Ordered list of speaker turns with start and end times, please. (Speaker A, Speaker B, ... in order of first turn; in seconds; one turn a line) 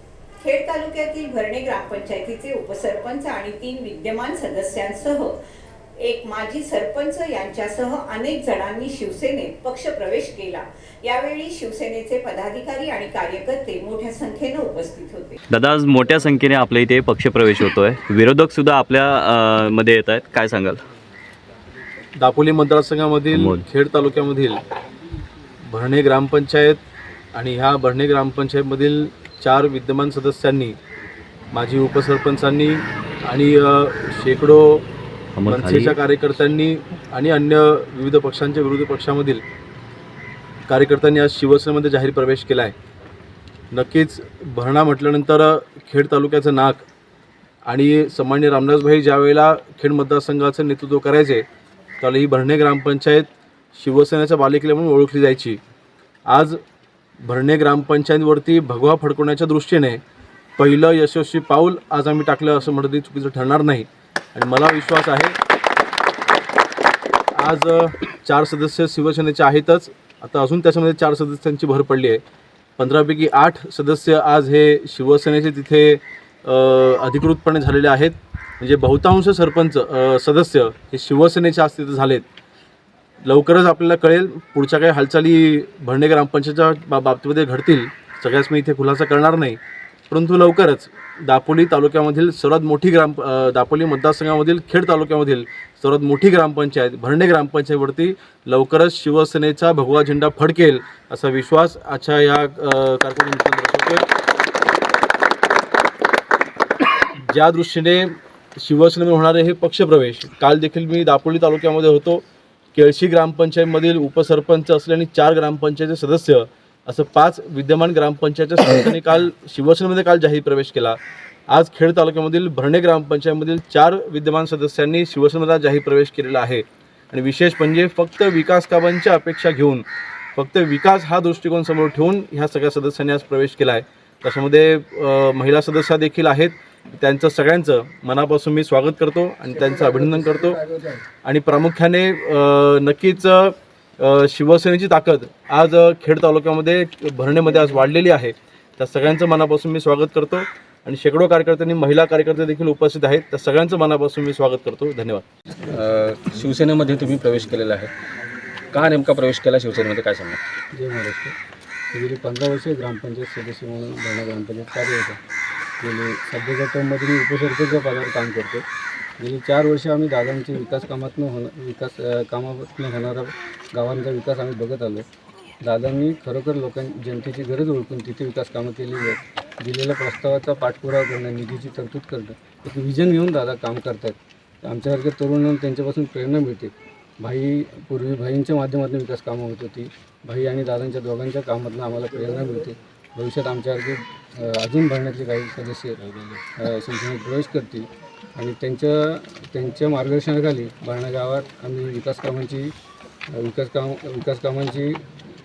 Speaker A: 0.4-5.3
Speaker A: 6.0-15.4
Speaker B: 15.5-20.8
Speaker C: 22.2-24.6
Speaker B: 23.3-23.6
Speaker C: 25.7-26.8
Speaker C: 27.3-30.8
Speaker C: 31.5-34.8
Speaker B: 35.4-36.0
Speaker C: 35.5-39.4
Speaker C: 40.7-42.7
Speaker C: 43.7-46.8
Speaker C: 47.6-51.4
Speaker C: 52.0-55.6
Speaker C: 56.3-56.6
Speaker C: 57.2-60.0
Speaker C: 60.6-65.4
Speaker C: 67.3-72.2
Speaker C: 72.8-82.2
Speaker C: 83.2-89.6
Speaker C: 90.1-104.0
Speaker C: 107.2-112.2
Speaker C: 112.7-121.0
Speaker C: 121.5-140.6
Speaker D: 139.8-141.0
Speaker C: 141.2-155.2
Speaker E: 155.7-157.9
Speaker E: 158.7-160.4
Speaker D: 160.7-161.3
Speaker D: 161.9-165.2
Speaker D: 165.8-168.6
Speaker D: 169.2-175.1
Speaker D: 175.6-196.0
Speaker D: 196.5-202.7
Speaker D: 203.3-205.0